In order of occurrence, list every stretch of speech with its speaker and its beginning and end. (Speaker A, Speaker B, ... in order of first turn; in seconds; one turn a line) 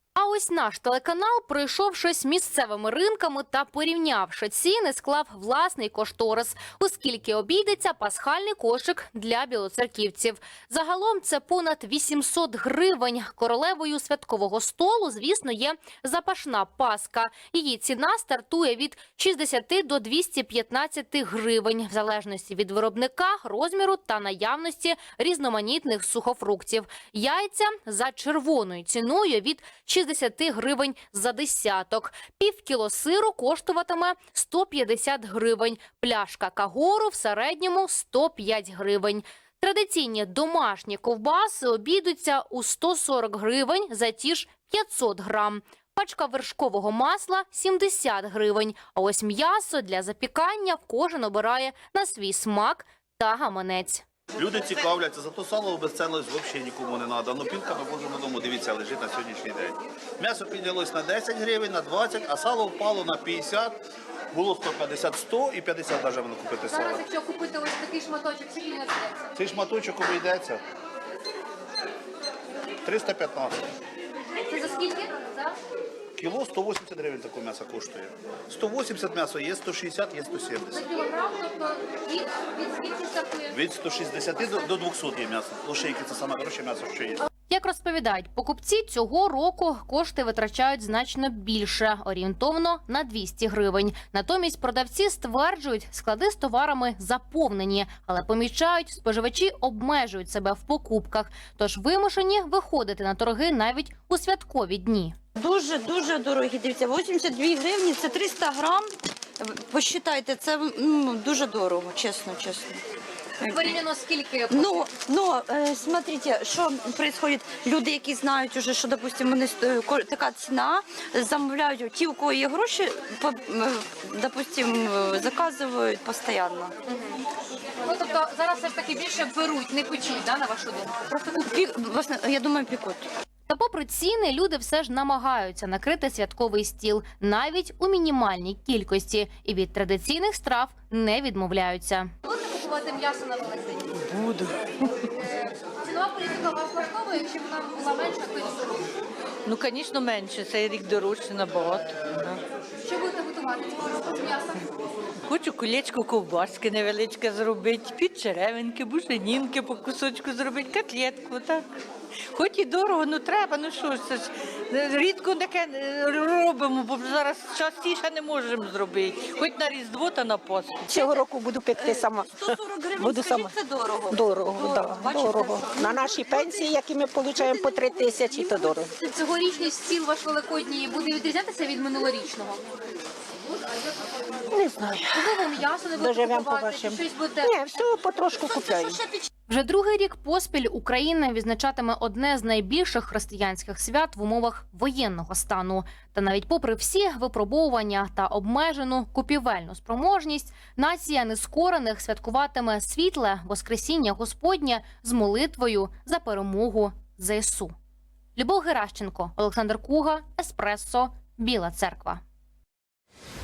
Speaker A: 0.2-54.0
Speaker B: 54.4-63.8
Speaker B: 64.3-67.0
Speaker A: 66.7-69.2
Speaker B: 69.4-70.6
Speaker B: 72.9-73.5
Speaker A: 74.5-75.5
Speaker B: 76.2-80.9
Speaker A: 80.7-83.5
Speaker B: 83.5-87.2
Speaker A: 87.5-105.1
Speaker C: 105.4-112.8
Speaker C: 113.4-113.7
Speaker A: 113.5-114.8
Speaker C: 114.5-126.7
Speaker A: 127.8-131.0
Speaker C: 131.3-133.1
Speaker A: 133.5-143.9
Speaker D: 144.1-144.5
Speaker A: 145.8-148.8
Speaker D: 149.4-152.4
Speaker A: 152.8-154.6
Speaker D: 155.3-161.6
Speaker D: 162.3-171.0
Speaker E: 170.9-178.9
Speaker C: 172.6-174.8
Speaker A: 179.0-182.6
Speaker E: 184.5-189.0
Speaker A: 185.1-187.6
Speaker A: 189.5-207.7
Speaker A: 208.4-212.2